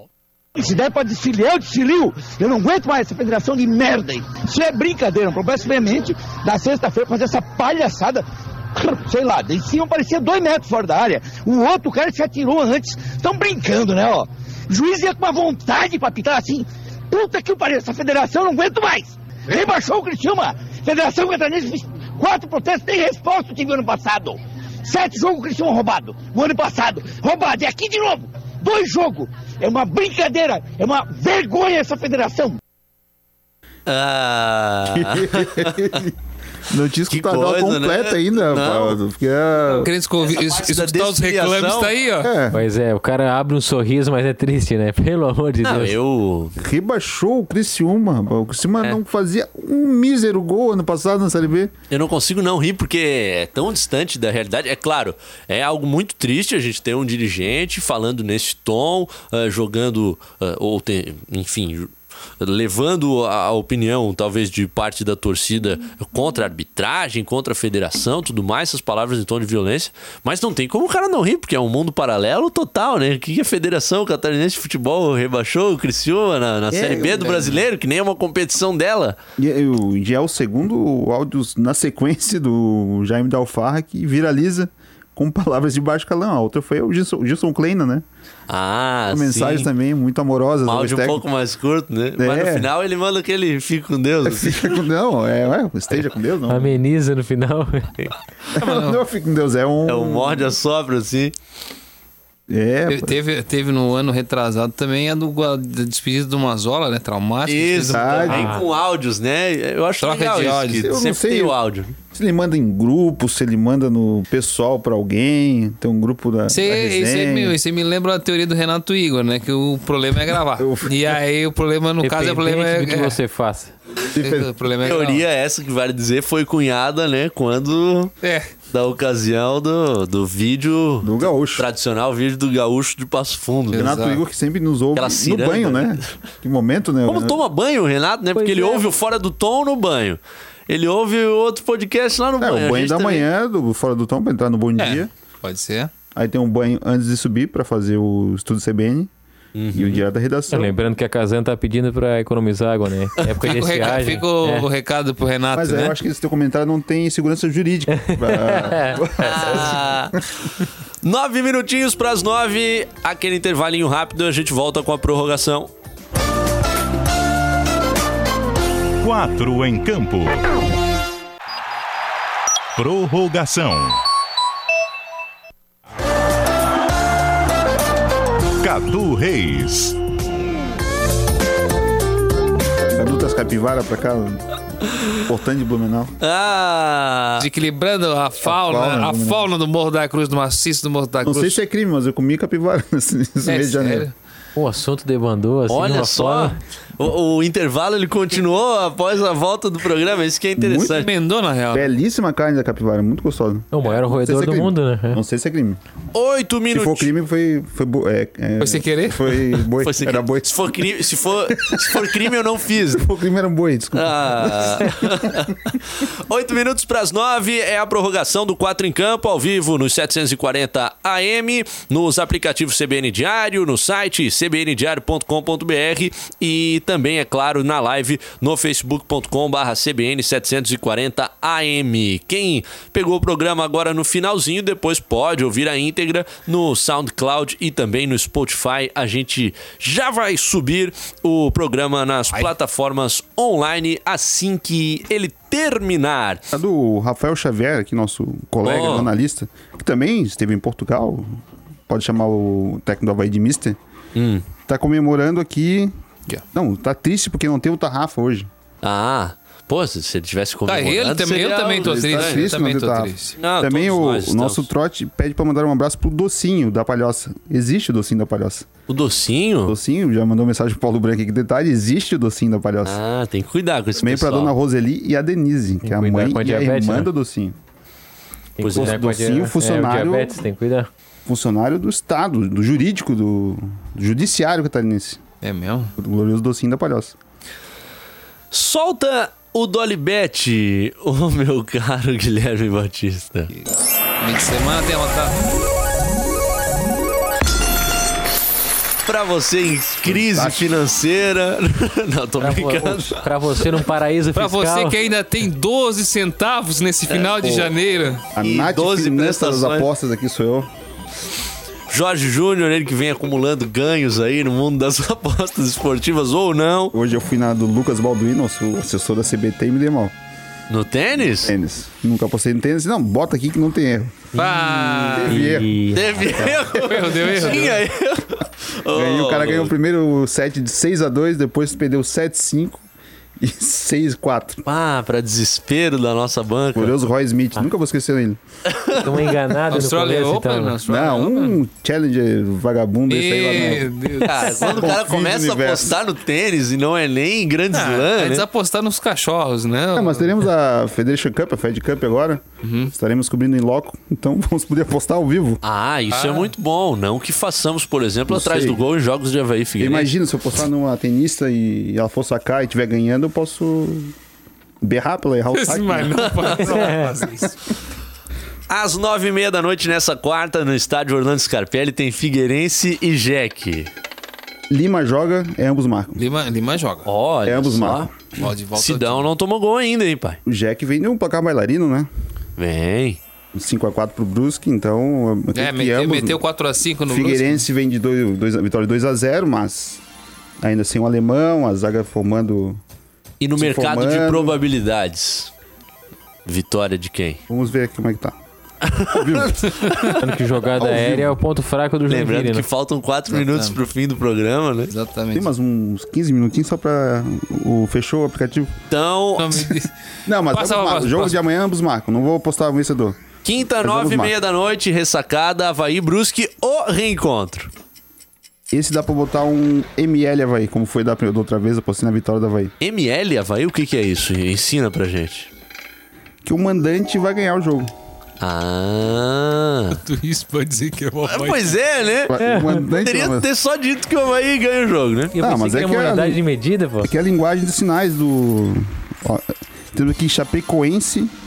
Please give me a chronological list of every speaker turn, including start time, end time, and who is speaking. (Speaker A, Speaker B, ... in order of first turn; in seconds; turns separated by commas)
Speaker A: 0.6-32.6, Speaker B: 33.9-36.1, Speaker C: 34.9-36.1, Speaker C: 36.7-39.9, Speaker B: 37.1-39.0, Speaker D: 39.6-42.3, Speaker B: 40.2-42.0, Speaker C: 42.2-42.6, Speaker E: 42.5-46.0, Speaker B: 45.6-46.6, Speaker C: 46.6-51.7, Speaker B: 51.9-79.2, Speaker C: 76.7-77.7, Speaker C: 79.4-88.0, Speaker B: 88.5-89.7, Speaker C: 89.1-91.2, Speaker B: 90.7-94.8, Speaker C: 92.2-92.7, Speaker C: 94.2-96.8, Speaker E: 96.5-98.1, Speaker C: 98.5-100.5, Speaker D: 98.6-99.0, Speaker B: 99.9-101.3, Speaker C: 102.5-103.2, Speaker D: 102.9-108.5, Speaker B: 107.5-112.0, Speaker C: 107.9-108.6, Speaker E: 108.3-108.7, Speaker D: 110.0-110.9, Speaker C: 110.8-111.5, Speaker C: 112.1-117.6, Speaker D: 116.5-123.2, Speaker C: 120.6-121.2, Speaker E: 122.0-123.7, Speaker C: 124.2-124.5, Speaker D: 124.2-125.2, Speaker B: 124.8-128.1, Speaker D: 128.2-128.5, Speaker B: 128.7-134.0, Speaker C: 131.0-131.7, Speaker D: 133.7-134.2, Speaker C: 133.8-137.4, Speaker B: 134.9-136.0, Speaker B: 137.1-143.3, Speaker E: 138.4-138.9, Speaker C: 142.4-145.1, Speaker D: 144.8-145.9, Speaker C: 146.2-149.1, Speaker B: 149.6-150.0, Speaker C: 149.7-150.7, Speaker E: 150.5-154.7, Speaker D: 153.3-155.9, Speaker C: 155.5-159.9, Speaker E: 158.0-159.0, Speaker B: 159.2-160.5, Speaker B: 161.0-165.7, Speaker F: 169.0-170.5, Speaker F: 172.8-174.0, Speaker F: 178.6-180.0, Speaker C: 182.9-184.5, Speaker C: 185.2-186.1, Speaker B: 186.2-187.5, Speaker D: 187.4-191.6, Speaker C: 188.4-189.5, Speaker C: 191.2-194.1, Speaker D: 193.4-194.1, Speaker E: 194.6-196.6, Speaker B: 195.7-201.1, Speaker C: 200.6-201.0, Speaker D: 200.9-201.9, Speaker C: 201.7-205.8, Speaker E: 203.7-205.2, Speaker B: 206.1-207.1, Speaker C: 206.7-210.8, Speaker D: 208.6-209.3, Speaker B: 209.8-213.1, Speaker C: 211.6-212.2, Speaker C: 212.9-215.4, Speaker B: 213.9-246.4, Speaker C: 246.5-251.4, Speaker B: 248.6-249.1, Speaker C: 251.9-253.8, Speaker B: 254.2-254.5, Speaker C: 254.7-255.9, Speaker C: 256.5-258.5, Speaker B: 258.8-262.5, Speaker D: 260.7-263.4, Speaker C: 261.8-268.7, Speaker B: 263.4-264.7, Speaker B: 268.9-269.8, Speaker C: 269.7-273.0, Speaker B: 272.9-274.5, Speaker C: 274.0-277.6, Speaker E: 275.8-277.1, Speaker E: 278.6-280.9, Speaker B: 278.6-279.0, Speaker C: 278.6-280.4, Speaker C: 281.3-285.2, Speaker D: 285.4-285.9, Speaker C: 286.0-287.2, Speaker B: 288.5-293.5, Speaker D: 293.5-295.5, Speaker B: 299.0-303.2, Speaker C: 300.1-300.7, Speaker E: 302.4-305.0, Speaker D: 304.4-308.2, Speaker B: 307.1-307.7, Speaker C: 308.4-310.7, Speaker B: 308.4-309.9, Speaker B: 311.9-316.9, Speaker C: 316.9-320.1, Speaker B: 320.7-321.5, Speaker C: 321.4-325.8, Speaker D: 324.4-325.4, Speaker E: 324.4-326.6, Speaker B: 325.9-329.7, Speaker D: 326.7-327.8, Speaker C: 328.9-332.8, Speaker C: 333.4-334.6, Speaker B: 334.7-337.0, Speaker C: 336.8-338.4, Speaker B: 338.7-339.0, Speaker E: 339.0-340.8, Speaker D: 339.7-341.6, Speaker C: 340.9-346.0, Speaker D: 343.1-344.4, Speaker B: 344.3-348.5, Speaker D: 347.7-350.5, Speaker C: 349.9-355.6, Speaker D: 352.6-352.9, Speaker B: 355.6-360.1, Speaker D: 356.1-356.5, Speaker C: 358.3-358.8, Speaker C: 359.8-364.1, Speaker C: 364.8-367.4, Speaker D: 365.5-367.6, Speaker E: 366.7-367.1, Speaker B: 368.7-373.9, Speaker C: 374.7-376.2, Speaker D: 376.2-377.1, Speaker B: 377.1-378.1, Speaker C: 377.4-378.1, Speaker D: 378.4-379.3, Speaker B: 378.7-380.4, Speaker C: 380.4-382.1, Speaker B: 382.6-383.2, Speaker C: 383.5-386.4, Speaker D: 385.6-387.6, Speaker C: 387.1-390.0, Speaker C: 390.6-392.8, Speaker B: 393.4-395.5, Speaker C: 393.6-394.6, Speaker B: 396.5-397.4, Speaker C: 397.5-398.4, Speaker B: 398.9-400.2, Speaker C: 399.1-399.7, Speaker E: 400.2-402.7, Speaker C: 400.8-401.3, Speaker B: 402.1-404.9, Speaker D: 403.3-403.8, Speaker D: 404.9-405.5, Speaker C: 405.3-408.8, Speaker B: 408.9-409.8, Speaker D: 409.4-409.9, Speaker C: 410.3-413.2, Speaker D: 410.5-411.4, Speaker B: 413.4-417.7, Speaker C: 413.8-414.3, Speaker C: 418.7-422.7, Speaker B: 422.8-425.5, Speaker C: 426.4-427.9, Speaker B: 428.4-430.0, Speaker D: 429.9-431.8, Speaker B: 431.2-435.4, Speaker C: 432.3-433.5, Speaker E: 432.4-432.8, Speaker E: 435.4-437.1, Speaker C: 435.4-436.4, Speaker C: 437.0-441.3